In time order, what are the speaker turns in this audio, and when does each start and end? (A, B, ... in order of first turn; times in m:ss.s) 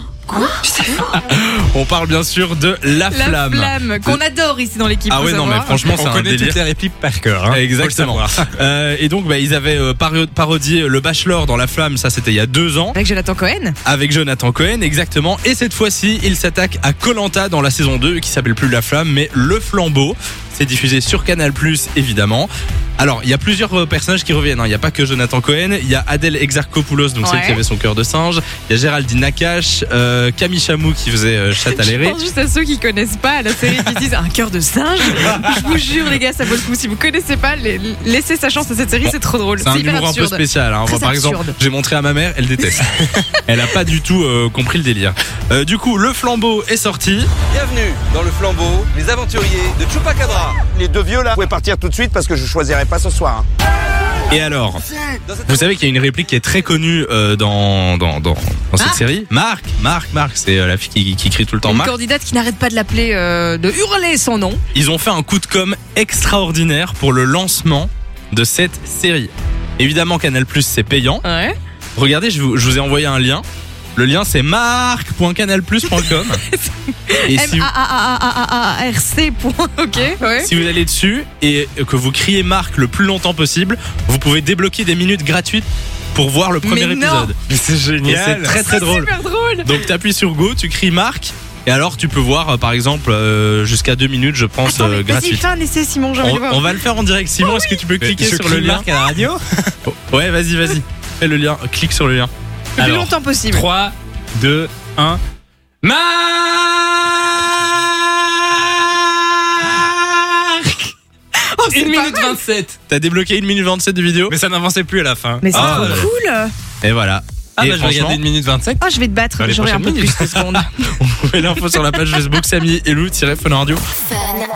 0:01.0-0:04.2 A
0:03.1-0:05.9 B
0:05.1-0:06.6 A
0:05.8-0:06.6 C
0:06.6-0:07.8 D
0:07.5-0:13.0 A
0:07.8-0:08.4 C
0:13.0-0:13.8 B
0:13.8-0:32.2 A
0:27.2-0:27.6 B
0:31.6-0:41.6 B
0:39.0-0:42.9 A
0:43.5-0:47.3 A
0:47.5-0:50.6 C
0:50.6-0:53.5 E
0:54.3-0:54.8 A
0:55.3-0:55.6 C
0:55.5-1:01.9 A
1:01.6-1:04.6 B
1:04.7-1:11.3 A
1:11.2-1:11.6 B
1:12.0-1:13.4 A
1:14.0-1:16.4 A
1:16.2-1:20.5 B
1:17.1-1:17.7 A
1:20.4-1:27.4 A
1:26.6-1:27.3 B
1:27.4-1:28.5 D
1:28.0-1:28.4 C
1:28.0-1:29.1 A
1:28.5-1:29.7 B
1:29.6-1:35.5 A
1:34.6-1:36.8 B
1:36.2-1:38.9 A
1:37.4-1:37.8 B
1:38.0-1:39.4 D
1:38.9-1:39.4 C
1:39.9-1:42.3 A
1:42.8-1:43.7 B
1:42.8-1:44.7 D
1:43.1-1:43.6 C
1:44.6-1:45.2 C
1:45.8-1:50.8 C
1:51.5-1:52.4 B
1:51.7-1:52.7 D
1:52.9-1:54.4 A
1:54.3-1:56.0 D
1:54.5-1:56.0 C
1:55.4-1:56.5 B
1:55.5-1:56.1 A
1:56.8-1:58.2 A
1:57.6-1:58.7 C
1:57.7-1:58.8 D
1:58.8-2:00.7 B
1:59.4-2:00.5 C
2:00.5-2:03.8 A